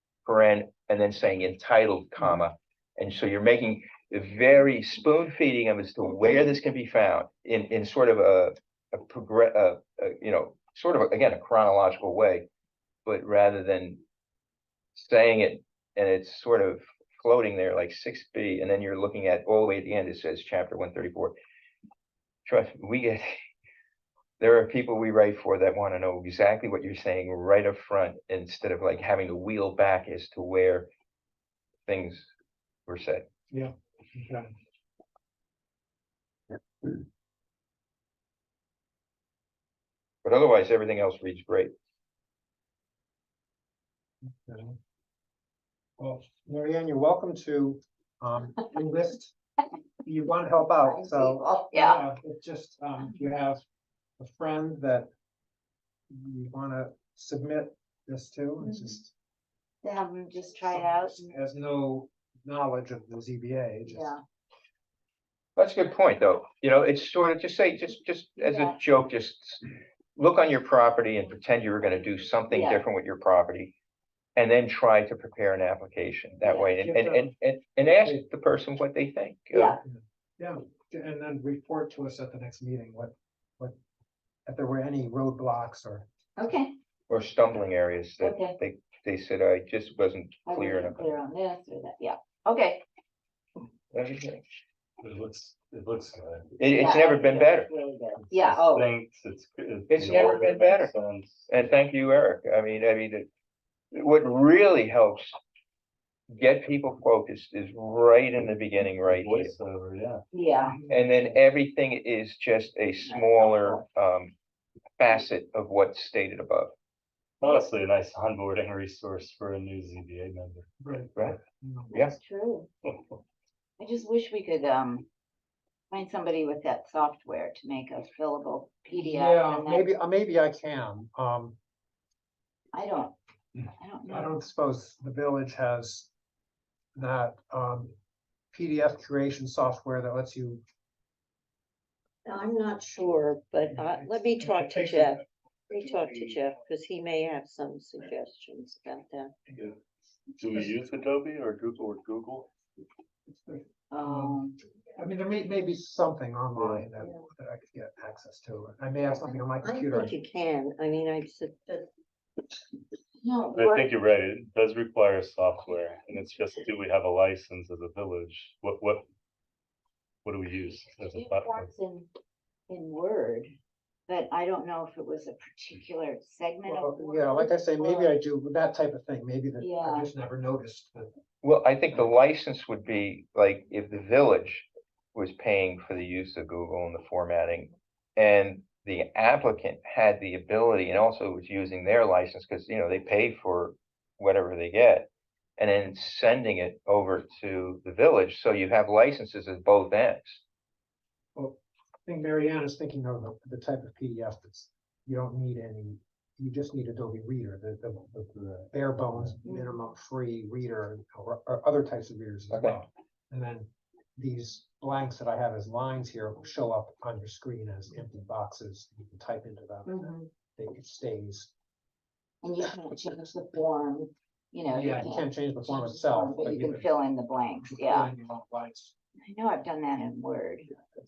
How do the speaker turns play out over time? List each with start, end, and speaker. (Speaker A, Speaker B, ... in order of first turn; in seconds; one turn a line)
Speaker A: 0.2-12.5
Speaker A: 13.1-14.0
Speaker A: 14.9-21.4
Speaker A: 22.4-23.4
Speaker A: 24.4-30.9
Speaker A: 31.9-32.3
Speaker A: 32.9-33.2
Speaker B: 33.5-34.5
Speaker A: 40.2-41.7
Speaker B: 44.4-44.8
Speaker B: 46.0-49.3
Speaker B: 50.0-53.6
Speaker C: 50.8-52.0
Speaker B: 54.2-55.1
Speaker B: 56.1-59.1
Speaker C: 58.6-59.0
Speaker C: 59.8-61.3
Speaker B: 60.6-64.2
Speaker C: 63.9-64.2
Speaker A: 65.6-69.6
Speaker C: 68.4-68.8
Speaker A: 70.2-73.7
Speaker C: 72.5-72.8
Speaker A: 74.3-79.8
Speaker C: 76.4-76.7
Speaker B: 76.8-77.3
Speaker C: 79.5-79.8
Speaker B: 79.8-83.8
Speaker B: 84.5-86.1
Speaker C: 86.4-86.7
Speaker A: 87.1-91.2
Speaker C: 88.2-88.5
Speaker C: 90.5-92.8
Speaker A: 93.9-94.4
Speaker D: 95.0-96.5
Speaker A: 96.6-97.7
Speaker C: 96.8-98.9
Speaker D: 98.3-101.8
Speaker A: 99.9-100.9
Speaker C: 100.1-100.4
Speaker A: 101.5-103.3
Speaker A: 103.9-105.4
Speaker A: 106.3-109.5
Speaker D: 109.0-110.2
Speaker C: 110.3-110.8
Speaker B: 110.6-110.9
Speaker A: 110.9-114.3
Speaker C: 113.0-113.8
Speaker A: 115.0-116.7
Speaker D: 117.4-120.7
Speaker B: 120.8-121.9
Speaker C: 122.0-122.7
Speaker D: 122.8-123.1
Speaker C: 123.8-125.0
Speaker C: 125.9-129.9
Speaker B: 128.9-131.5
Speaker C: 132.7-133.1
Speaker C: 133.7-134.4
Speaker B: 134.1-136.1
Speaker B: 136.9-137.9
Speaker B: 138.5-140.6
Speaker E: 142.2-149.3
Speaker B: 143.7-145.1
Speaker D: 150.4-152.5
Speaker B: 153.3-160.1
Speaker C: 153.9-154.6
Speaker D: 156.6-156.9
Speaker E: 159.6-161.9
Speaker C: 163.2-163.9
Speaker D: 163.5-169.1
Speaker D: 170.2-171.7
Speaker C: 171.0-172.1
Speaker C: 172.7-173.5
Speaker C: 174.1-178.2
Speaker B: 176.7-181.1
Speaker C: 179.6-180.1
Speaker A: 181.4-200.4
Speaker B: 201.3-221.5
Speaker C: 209.4-209.9
Speaker A: 212.5-212.8
Speaker E: 219.9-220.3
Speaker C: 222.4-228.1
Speaker B: 224.7-226.9
Speaker B: 227.7-228.9
Speaker C: 229.3-230.7